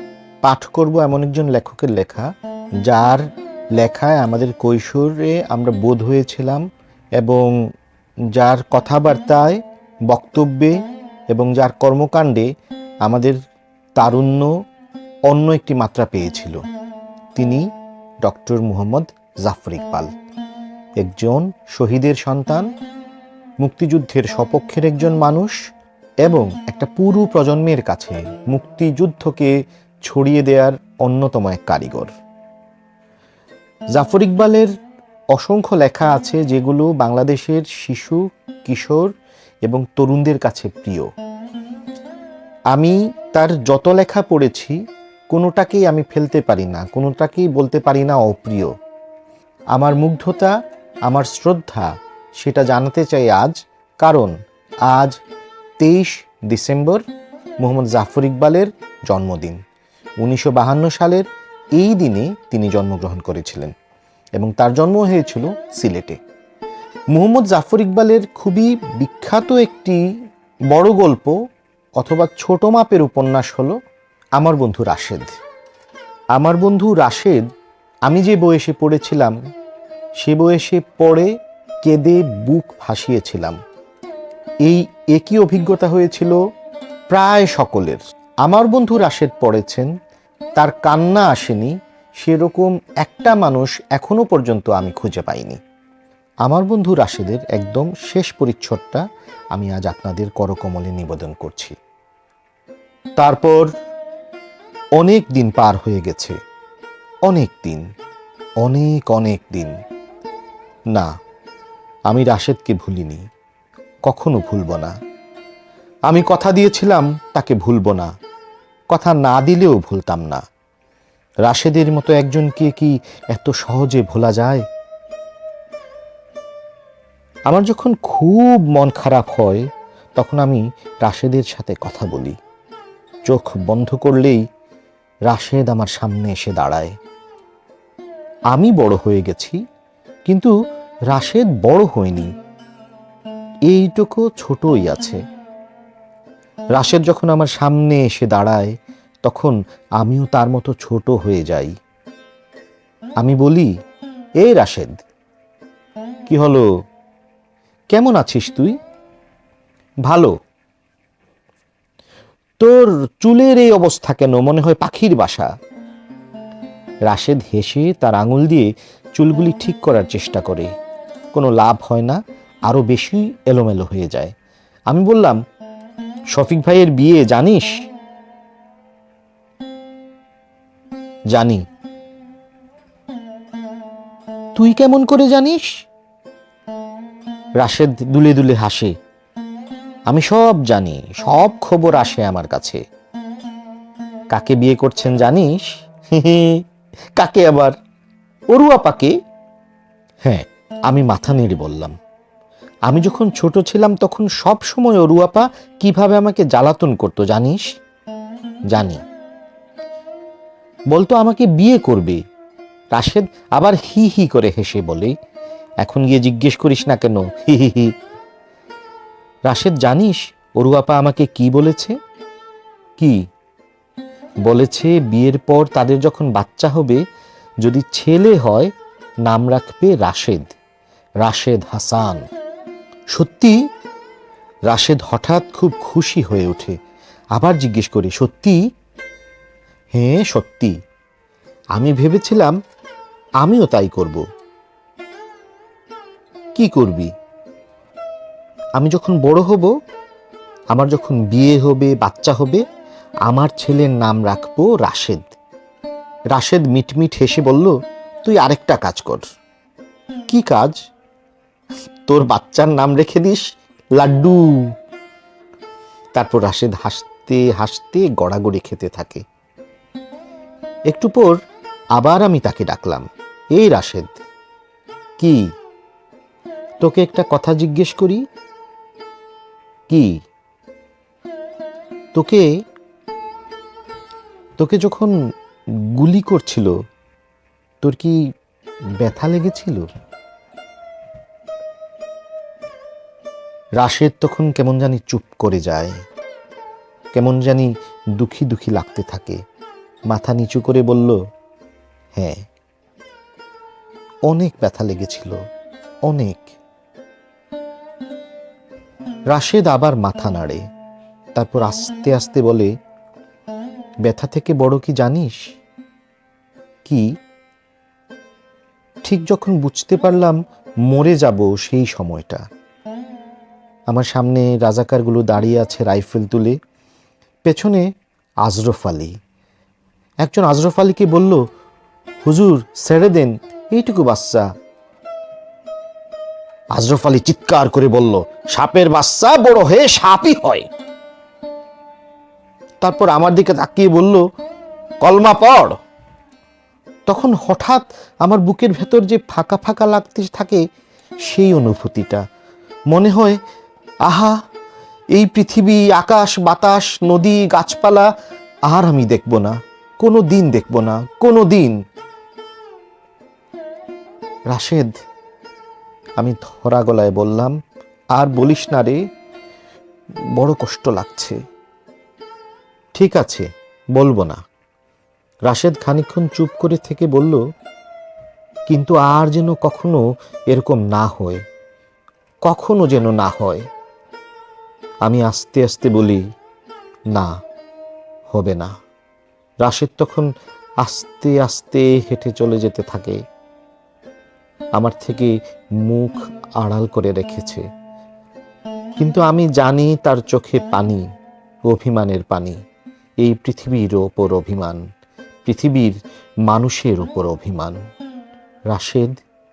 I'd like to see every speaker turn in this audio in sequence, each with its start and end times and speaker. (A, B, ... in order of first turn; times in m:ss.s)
0:00.4-0:02.3 A
0:02.8-0:03.2 A
0:03.8-0:06.6 A
0:07.2-0:07.5 A
0:08.4-0:10.8 A
0:11.3-0:12.5 A
0:13.0-0:13.4 A
0:14.0-0:14.5 A
0:15.3-0:16.6 A
0:17.3-0:17.7 A
0:18.2-0:20.1 A
0:21.0-0:22.7 A
0:23.6-0:25.5 A
0:26.2-0:29.5 A
0:30.0-0:32.1 A
0:33.9-0:34.7 A
0:35.3-0:39.1 A
0:39.6-0:41.1 A
0:42.7-0:44.8 A
0:45.3-0:48.7 A
0:49.7-0:50.5 A
0:51.1-0:54.3 A
0:54.9-0:55.1 A
0:55.8-0:57.0 A
0:57.6-0:59.6 A
1:00.2-1:01.2 A
1:01.8-1:03.7 A
1:04.4-1:06.2 A
1:07.1-1:10.0 A
1:10.7-1:11.3 A
1:12.0-1:13.8 A
1:14.4-1:15.4 A
1:16.3-1:17.4 A
1:18.1-1:19.3 A
1:20.2-1:21.3 A
1:21.8-1:23.6 A
1:24.6-1:26.4 A
1:27.1-1:29.9 A
1:30.6-1:35.6 A
1:36.4-1:39.0 A
1:39.5-1:41.8 A
1:43.2-1:43.7 A
1:45.0-1:46.4 A
1:47.3-1:47.8 A
1:48.6-1:49.7 A
1:52.1-1:53.2 A
1:54.1-1:54.9 A
1:56.1-1:58.1 A
1:58.9-2:00.4 A
2:01.4-2:04.6 A
2:07.5-2:12.4 A
2:13.3-2:14.4 A
2:15.3-2:16.9 A
2:18.5-2:19.6 A
2:20.3-2:20.5 A
2:21.1-2:22.3 A
2:23.7-2:25.2 A
2:26.8-2:31.7 A
2:33.2-2:33.7 A
2:34.4-2:35.0 A
2:36.3-2:36.6 A
2:37.9-2:38.8 A
2:40.0-2:40.3 A
2:42.6-2:45.5 A
2:47.1-2:50.7 A
2:51.3-2:54.3 A
2:54.9-2:55.4 A
2:56.3-2:57.7 A
3:01.3-3:01.6 A
3:04.6-3:05.7 A
3:07.6-3:08.9 A
3:10.1-3:12.8 A
3:14.3-3:16.6 A
3:17.2-3:17.8 A
3:18.5-3:19.1 A
3:20.2-3:21.9 A
3:22.9-3:27.6 A
3:28.7-3:29.0 A
3:30.9-3:32.2 A
3:32.9-3:35.1 A
3:35.8-3:37.9 A
3:39.5-3:41.9 A
3:44.4-3:47.0 A
3:47.6-3:48.7 A
3:49.2-3:50.5 A
3:51.2-3:52.2 A
3:53.1-3:53.6 A
3:54.7-3:56.8 A
3:57.3-3:58.6 A
3:59.9-4:00.7 A
4:01.7-4:02.5 A
4:03.4-4:04.2 A
4:06.5-4:07.1 A
4:08.8-4:09.7 A
4:10.7-4:12.6 A
4:13.3-4:15.3 A
4:16.3-4:17.7 A
4:18.2-4:19.2 A
4:20.3-4:20.7 A
4:22.1-4:23.4 A
4:24.0-4:24.6 A
4:26.2-4:29.2 A
4:30.9-4:31.4 A
4:32.0-4:33.0 A
4:33.6-4:34.2 A
4:36.8-4:38.2 A
4:42.1-4:42.5 A
4:44.6-4:45.1 A
4:46.0-4:46.7 A
4:47.8-4:48.2 A
4:49.0-4:49.9 A
4:53.8-4:56.0 A
4:57.1-4:59.4 A
5:00.1-5:01.2 A
5:02.1-5:02.4 A
5:04.3-5:05.3 A
5:06.1-5:06.5 A
5:09.3-5:10.6 A
5:11.3-5:12.7 A
5:14.0-5:15.5 A
5:19.0-5:22.4 A
5:23.9-5:26.6 A
5:27.4-5:27.8 A
5:28.4-5:29.1 A
5:30.2-5:31.4 A
5:32.2-5:34.5 A
5:36.7-5:40.6 A
5:42.8-5:44.2 A
5:45.0-5:45.7 A
5:47.1-5:50.6 A
5:51.2-5:52.2 A
5:52.9-5:53.4 A
5:54.1-5:54.4 A
5:55.1-5:58.1 A
5:58.7-6:01.8 A
6:04.5-6:04.9 A
6:06.2-6:07.6 A
6:08.2-6:09.0 A
6:10.4-6:11.4 A
6:13.0-6:14.4 A
6:15.5-6:17.4 A
6:18.7-6:20.0 A
6:20.5-6:21.4 A
6:22.4-6:23.6 A
6:25.0-6:26.2 A
6:28.3-6:28.7 A
6:29.6-6:30.3 A
6:30.8-6:33.2 A
6:34.8-6:35.3 A
6:35.8-6:37.6 A
6:39.0-6:41.0 A
6:41.7-6:42.6 A
6:43.2-6:44.8 A
6:45.4-6:45.9 A
6:46.5-6:47.8 A
6:48.7-6:49.1 A